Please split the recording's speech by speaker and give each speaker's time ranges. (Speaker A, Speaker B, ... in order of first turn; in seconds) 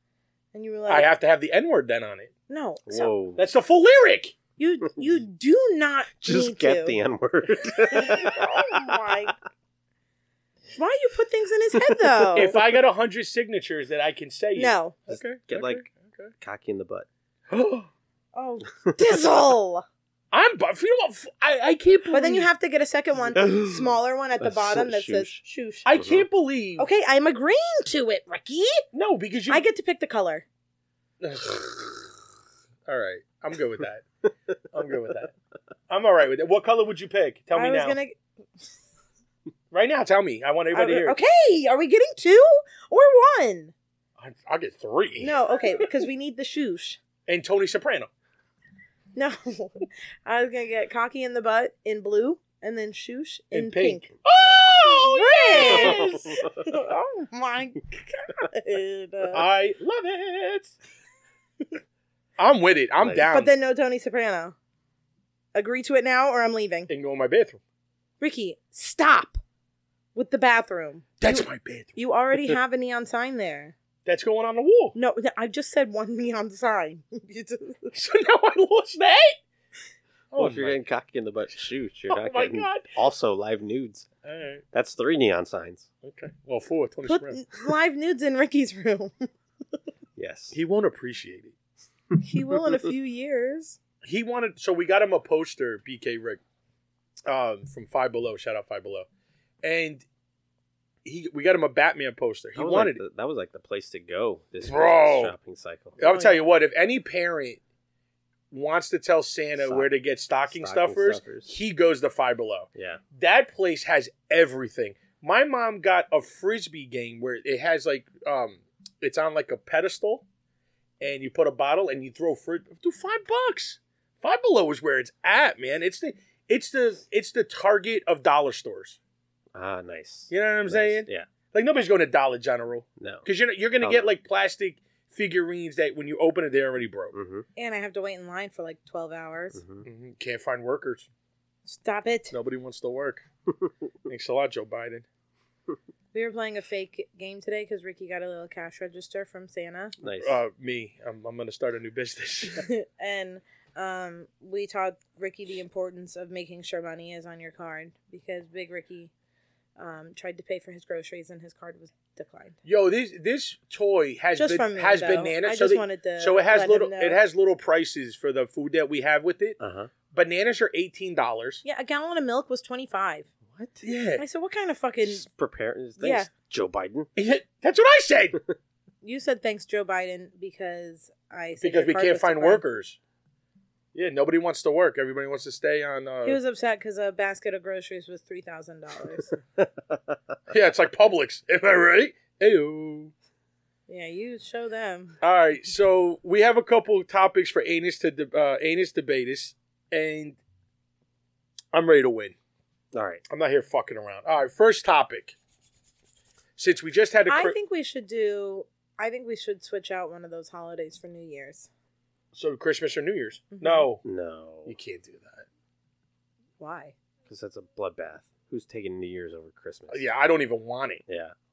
Speaker A: 0.5-1.1, 2.5-3.1, 4.6-7.0, 7.9-9.3, 10.8-12.5, 14.6-15.0, 18.3-19.9, 22.1-25.9, 26.8-28.8, 29.5-30.5, 37.5-38.2, 40.7-43.7, 45.2-47.0, 49.1-54.1, 54.7-59.4, 63.3-64.5, 65.5-66.9, 68.2-69.4, 70.2-73.7, 74.9-77.9, 87.1-89.3, 92.2-93.8, 106.0-106.4, 137.6-139.6, 141.7-142.3, 146.1-149.9, 152.5-159.1, 159.8-162.6, 164.4-167.2, 171.6-173.3, 174.2-175.3, 176.0-176.3, 179.0-182.6, 186.2-189.3, 193.9-195.2, 207.3-211.7, 213.5-213.9, 216.6-216.9
Speaker B: 0.9-2.3, 3.4-4.4, 8.1-8.4, 12.3-16.3, 17.5-17.9, 20.3-22.5, 25.9-26.9, 28.9-29.6, 31.2-32.1, 32.9-34.0, 34.7-35.3, 35.9-38.0, 39.7-41.2, 44.2-45.9, 47.3-48.1, 53.5-56.3, 59.3-60.8, 62.4-63.5, 66.9-67.6, 71.2-72.6, 74.1-75.0, 77.9-79.4, 80.3-80.8, 82.1-82.9, 84.2-84.6, 86.0-87.4, 90.5-91.5, 94.0-96.4, 97.3-99.1, 99.6-100.0, 101.0-103.0, 104.6-105.3, 106.0-107.6, 108.5-120.2, 121.0-129.0, 130.3-137.1, 139.8-141.1, 142.3-143.2, 144.1-145.1, 150.2-152.7, 162.6-169.6, 170.1-171.6, 173.8-174.2, 177.2-178.4, 181.6-183.0, 183.9-186.4, 190.5-193.1, 195.2-200.4, 201.7-202.3, 203.3-205.3, 206.6-207.6, 212.3-214.0, 214.7-215.5, 219.9-221.0
Speaker C: 2.9-3.4, 6.2-8.4, 15.1-15.9, 16.4-17.1, 23.4-25.4, 25.9-26.3, 54.2-54.6, 55.5-56.5, 63.0-63.3, 80.4-84.1, 84.7-85.9, 90.2-90.6, 102.6-106.0, 110.5-111.5, 112.8-113.0, 129.5-131.3, 133.0-133.3, 133.8-134.1, 137.1-137.5, 139.6-139.8, 150.0-150.4, 169.6-169.9, 173.4-173.8, 175.0-177.1, 189.6-190.0, 202.9-203.2, 214.0-214.8, 217.3-220.0, 221.1-221.3